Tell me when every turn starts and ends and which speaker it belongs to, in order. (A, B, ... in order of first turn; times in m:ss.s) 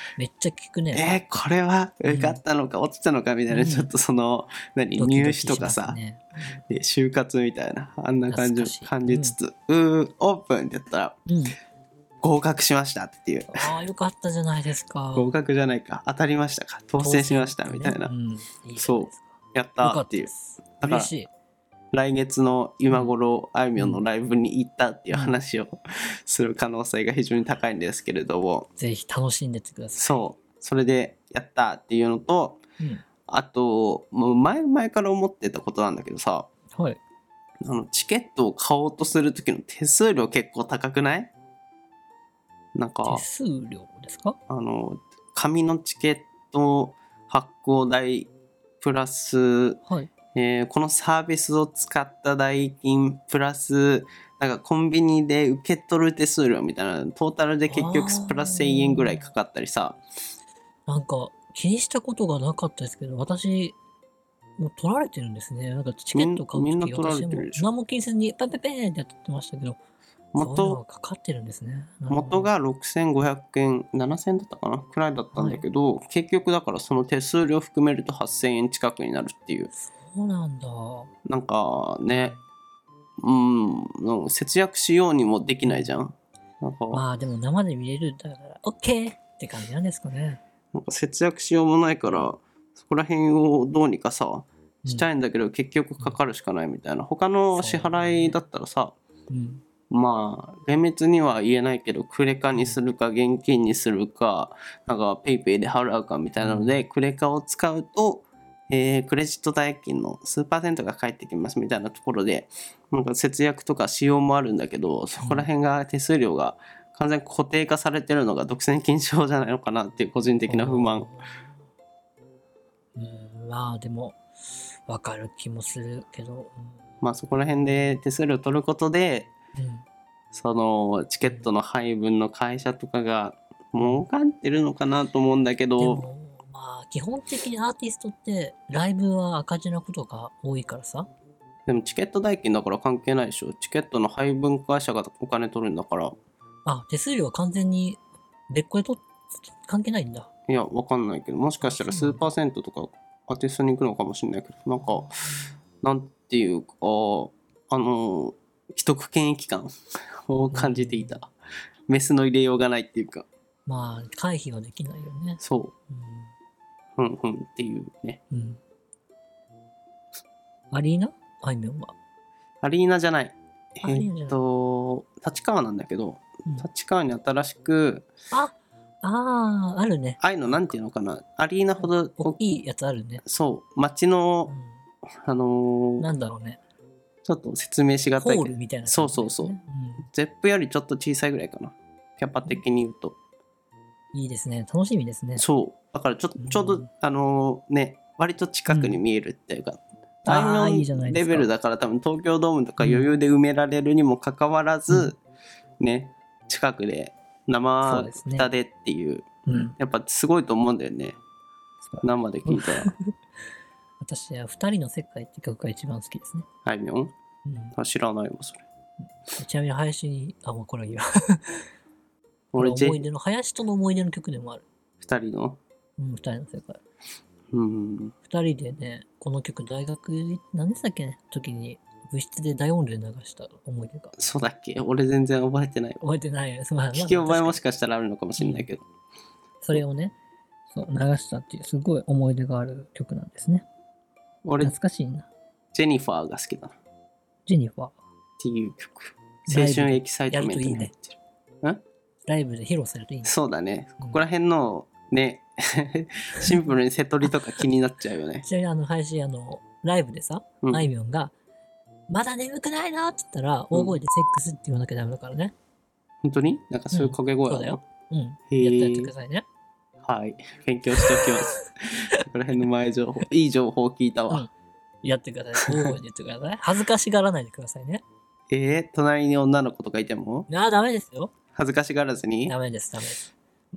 0:00.2-0:01.1 A
0:00.9-0:06.0 B
0:02.0-0:02.4 A
0:03.5-0:03.9 A
0:05.0-0:06.6 A
0:06.6-0:11.2 B
0:08.3-0:09.4 A
0:11.2-0:11.6 A
0:12.2-0:13.8 B
0:13.5-0:15.3 A
0:15.1-0:18.1 B
0:17.0-0:21.3 A
0:18.8-0:21.1 B
0:21.9-0:28.7 B
0:22.9-0:23.1 A
0:23.7-0:24.0 A
0:25.1-0:25.4 A
0:28.8-0:30.3 A
0:30.0-0:32.6 B
0:32.8-0:33.1 A
0:33.2-0:36.5 B
0:36.7-0:37.0 A
0:37.6-0:41.3 B
0:42.7-0:43.2 B
0:43.0-0:44.4 A
0:44.5-1:00.0 B
0:49.8-0:50.1 A
0:57.7-0:59.3 A
1:00.9-1:03.8 A
1:04.6-1:09.8 A
1:06.1-1:07.7 B
1:10.3-1:10.8 B
1:10.4-1:12.5 A
1:12.1-1:19.7 B
1:15.3-1:15.6 A
1:19.7-1:21.1 A
1:21.2-1:22.4 B
1:22.1-1:22.4 A
1:23.2-1:27.0 B
1:25.6-1:26.0 A
1:26.9-1:30.4 A
1:30.7-1:38.9 B
1:37.5-1:38.4 A
1:39.3-1:39.6 A
1:39.8-2:01.1 B
1:42.5-1:42.8 A
1:46.4-1:46.8 A
1:55.2-1:55.5 A
2:00.5-2:01.5 A
2:03.0-2:08.0 A
2:07.0-2:09.3 B
2:09.5-2:09.8 A
2:10.3-2:16.0 B
2:11.2-2:11.5 A
2:13.8-2:14.0 A
2:15.8-2:21.1 A
2:21.6-2:26.1 B
2:26.6-2:30.3 A
2:30.5-2:35.3 B
2:31.6-2:32.3 A
2:35.0-2:35.5 A
2:35.8-2:39.7 B
2:40.2-2:41.3 B
2:40.5-2:41.2 A
2:41.9-2:43.3 B
2:43.6-2:46.3 A
2:45.4-2:45.7 B
2:47.0-2:48.2 B
2:48.3-2:48.6 A
2:50.7-2:51.9 A
2:52.6-2:58.0 B
2:53.8-2:54.4 A
2:58.3-3:00.8 A
3:00.2-3:02.4 B
3:01.8-3:03.2 A
3:03.2-3:04.5 B
3:04.5-3:04.8 A
3:05.2-3:06.1 B
3:06.0-3:06.6 A
3:07.2-3:09.5 B
3:08.1-3:10.1 A
3:10.0-3:13.2 B
3:14.1-3:15.4 A
3:15.4-3:25.2 B
3:16.4-3:16.9 A
3:18.7-3:19.0 A
3:20.2-3:21.5 A
3:22.8-3:23.1 A
3:24.9-3:25.2 A
3:25.8-3:31.2 B
3:27.8-3:28.5 A
3:29.4-3:29.8 A
3:31.8-3:33.1 A
3:32.0-3:32.9 B
3:34.0-3:36.5 A
3:36.6-3:37.1 B
3:37.4-3:37.8 A
3:37.7-3:38.6 B
3:39.3-3:41.7 A
3:42.5-3:43.0 B
3:42.6-3:44.6 A
3:45.0-3:45.6 B
3:46.0-3:46.8 A
3:47.5-3:48.2 B
3:48.2-3:54.1 A
3:54.2-3:56.0 B
3:56.0-3:57.6 A
3:56.9-3:58.8 B
3:58.4-3:58.7 A
3:59.6-4:00.2 A
4:00.7-4:03.6 A
4:04.4-4:04.8 B
4:04.6-4:05.3 A
4:05.7-4:06.7 B
4:07.4-4:07.9 A
4:08.4-4:11.8 B
4:09.4-4:10.9 A
4:12.2-4:13.3 A
4:13.2-4:18.4 B
4:16.4-4:17.7 A
4:18.4-4:21.3 A
4:20.6-4:20.9 B
4:22.1-4:25.5 A
4:23.7-4:24.0 B
4:26.2-4:27.8 B
4:26.9-4:29.4 A
4:28.4-4:29.1 B
4:30.0-4:34.5 B
4:30.9-4:32.2 A
4:35.0-4:38.0 A
4:35.5-4:36.0 B
4:38.5-4:40.5 B
4:40.5-4:41.4 A
4:41.5-4:42.5 B
4:42.4-4:43.3 A